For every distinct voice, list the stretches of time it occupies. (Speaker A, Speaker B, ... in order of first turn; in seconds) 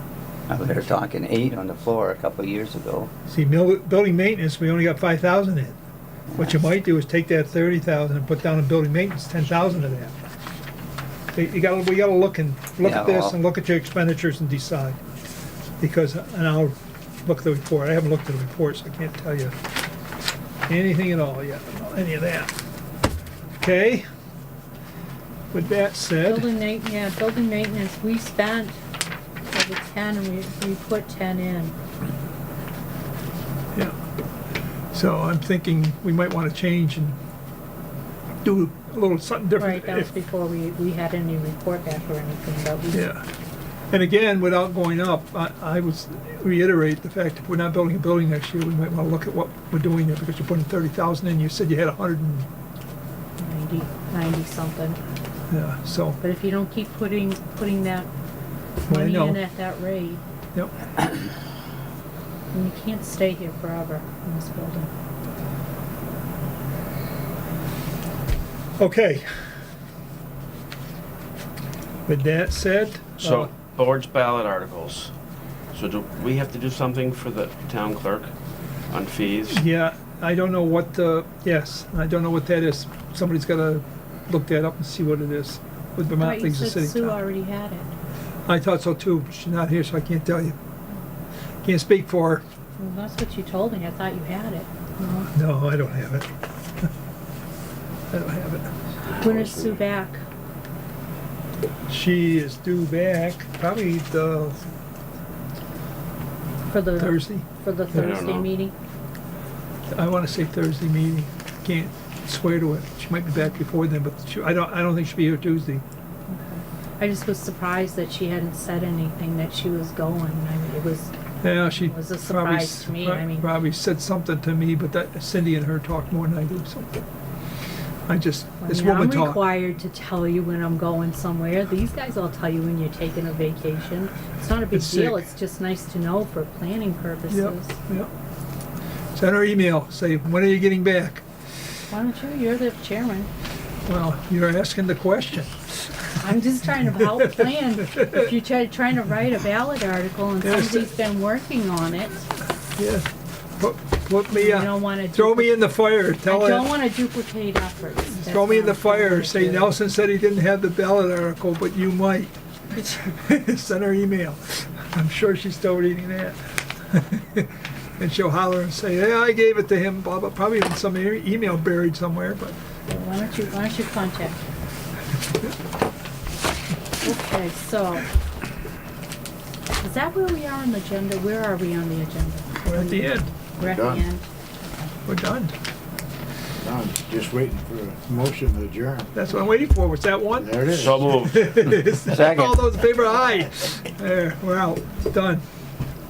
Speaker A: 0.5-3.1, 12.8-13.4, 192.0-192.7
Speaker B: 3.3-5.8, 6.3-10.1, 11.3-15.0, 15.8-19.6, 20.7-22.5, 23.6-24.1, 25.5-26.5, 34.9-37.2, 38.4-40.1, 42.9-43.2, 43.9-52.5, 55.5-56.2, 58.9-59.4, 68.8-69.3, 72.1-73.5, 79.5-87.2, 88.5-90.6, 91.6-92.4, 95.3-96.3, 98.1-98.7, 101.9-104.7, 107.0-108.2, 109.9-115.8, 121.4-127.0, 128.1-129.4, 134.7-135.3, 137.3-138.1, 139.2-141.2, 143.9-145.9, 147.9-148.3, 150.4-150.9, 152.8-153.1, 153.6-156.7, 158.2-162.3, 163.1-172.6, 182.6-183.3, 185.1-185.6, 189.1-190.6, 191.1-195.4
Speaker C: 26.2-28.8, 29.5-31.7, 39.6-43.1, 53.4-55.0, 56.2-58.1, 58.9-60.2, 62.5-64.9, 86.2-87.9, 92.8-95.3, 99.2-100.2, 106.7-108.7, 116.3-121.1, 121.7-123.5, 128.6-137.8, 141.9-143.3, 146.2-152.2, 154.3-159.7, 162.8-163.0, 172.9-174.4, 177.0-178.1, 179.8-184.2
Speaker D: 73.2-75.1, 75.7-78.3, 78.9-79.6, 99.2-99.8, 108.0-108.5, 190.6-191.7
Speaker E: 183.6-184.0, 186.6-189.1, 190.4-191.3